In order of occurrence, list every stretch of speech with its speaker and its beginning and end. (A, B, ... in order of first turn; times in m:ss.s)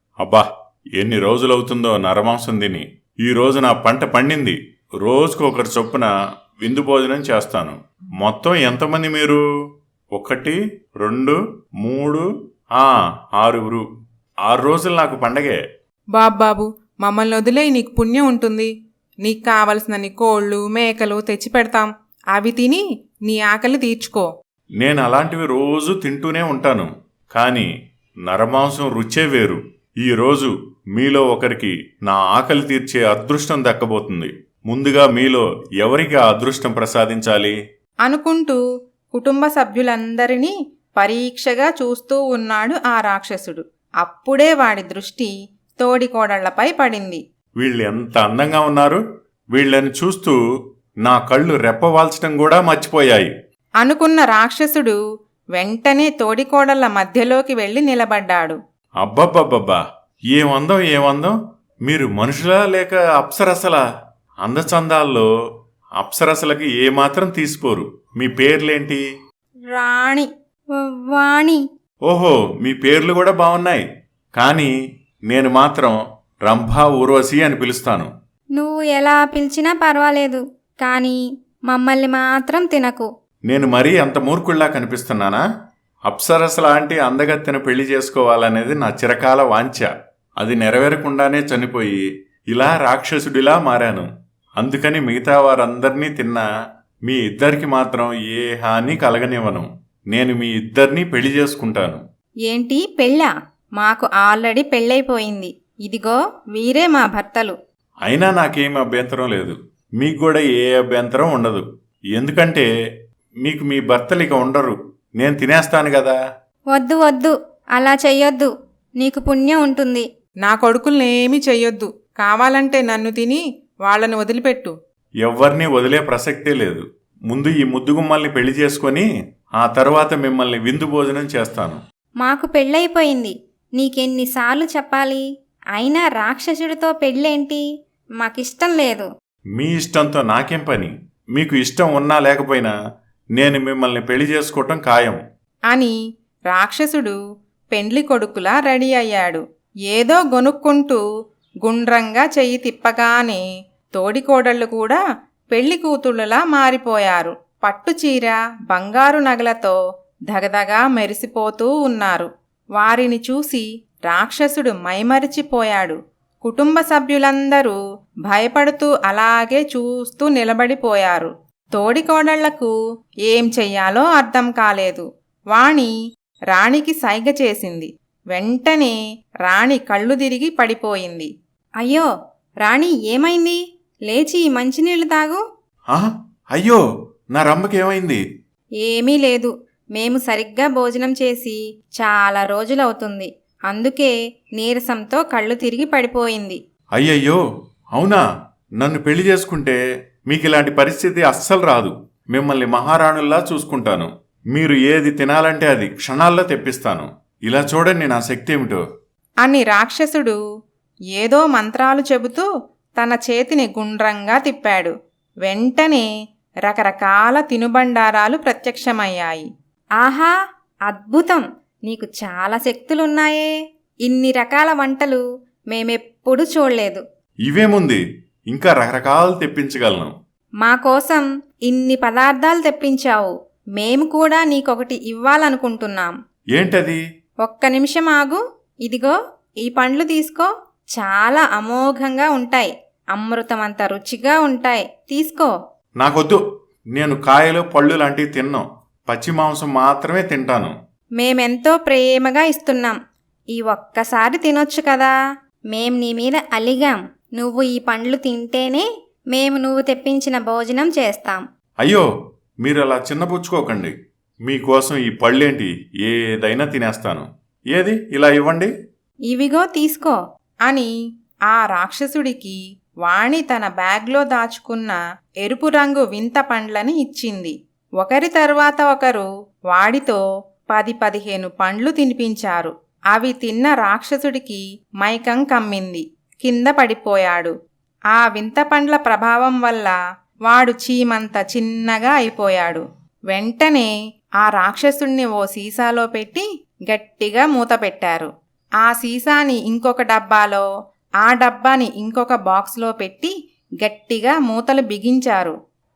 0:00.2-0:09.4 A
0:10.1-0:12.2 A
0:12.8-0:13.8 A
0:14.5-0:15.6 A
0:16.1-0:18.7 B
0:19.2-0:24.3 B
0:24.8-0:27.7 A
0:28.3-0:37.6 A
0:38.0-0:38.6 B
0:39.1-0:47.2 B
0:47.6-0:49.0 A
0:49.5-0:50.4 A
0:51.0-0:53.3 A
0:53.8-0:55.0 B
0:55.6-0:58.6 B
0:59.0-0:59.8 A
1:00.3-1:03.8 A
1:04.4-1:05.3 A
1:06.0-1:09.0 A
1:09.7-1:10.2 C
1:10.8-1:11.6 C
1:12.1-1:13.8 A
1:14.4-1:14.7 A
1:15.3-1:18.1 A
1:18.6-1:21.2 C
1:21.7-1:23.0 C
1:23.5-1:25.4 A
1:26.1-1:32.0 A
1:32.5-1:36.4 A
1:37.1-1:42.0 A
1:42.5-1:47.5 C
1:48.1-1:52.7 A
1:53.4-1:56.2 A
1:56.7-2:00.0 C
2:00.4-2:04.7 B
2:05.2-2:11.8 A
2:12.2-2:15.2 C
2:15.8-2:17.6 C
2:18.2-2:19.1 C
2:19.6-2:22.7 A
2:23.4-2:25.2 A
2:25.7-2:25.9 B
2:26.5-2:27.2 B
2:27.7-2:31.0 B
2:31.6-2:33.4 B
2:33.9-2:35.0 B
2:35.5-2:39.8 B
2:40.3-2:52.7 B
2:53.3-2:55.9 B
2:56.5-3:01.3 B
3:01.8-3:02.1 C
3:02.6-3:03.6 C
3:04.1-3:05.4 C
3:05.9-3:06.8 A
3:07.3-3:08.2 A
3:08.8-3:16.6 C
3:17.0-3:17.4 A
3:17.9-3:18.2 A
3:18.8-3:28.8 A
3:29.4-3:30.4 B
3:31.2-3:32.5 B
3:33.0-3:34.9 B
3:35.5-3:36.1 B
3:36.7-3:39.5 B
3:40.0-3:40.3 C
3:40.9-3:43.5 C
3:44.0-3:47.0 C
3:47.4-3:50.1 A
3:50.6-3:56.1 C
3:56.5-3:57.0 A
3:57.4-3:59.1 C
3:59.6-4:05.5 C
4:06.0-4:06.4 A
4:06.9-4:10.7 A
4:11.2-4:13.0 C
4:13.6-4:15.1 C
4:15.7-4:21.4 C
4:21.8-4:22.1 A
4:22.6-4:23.9 A
4:24.4-4:28.7 A
4:29.3-4:30.2 C
4:31.5-4:47.5 B
4:48.1-4:50.0 B
4:50.5-4:53.9 B
4:54.4-4:58.3 B
4:58.8-5:00.7 B
5:01.2-5:05.6 B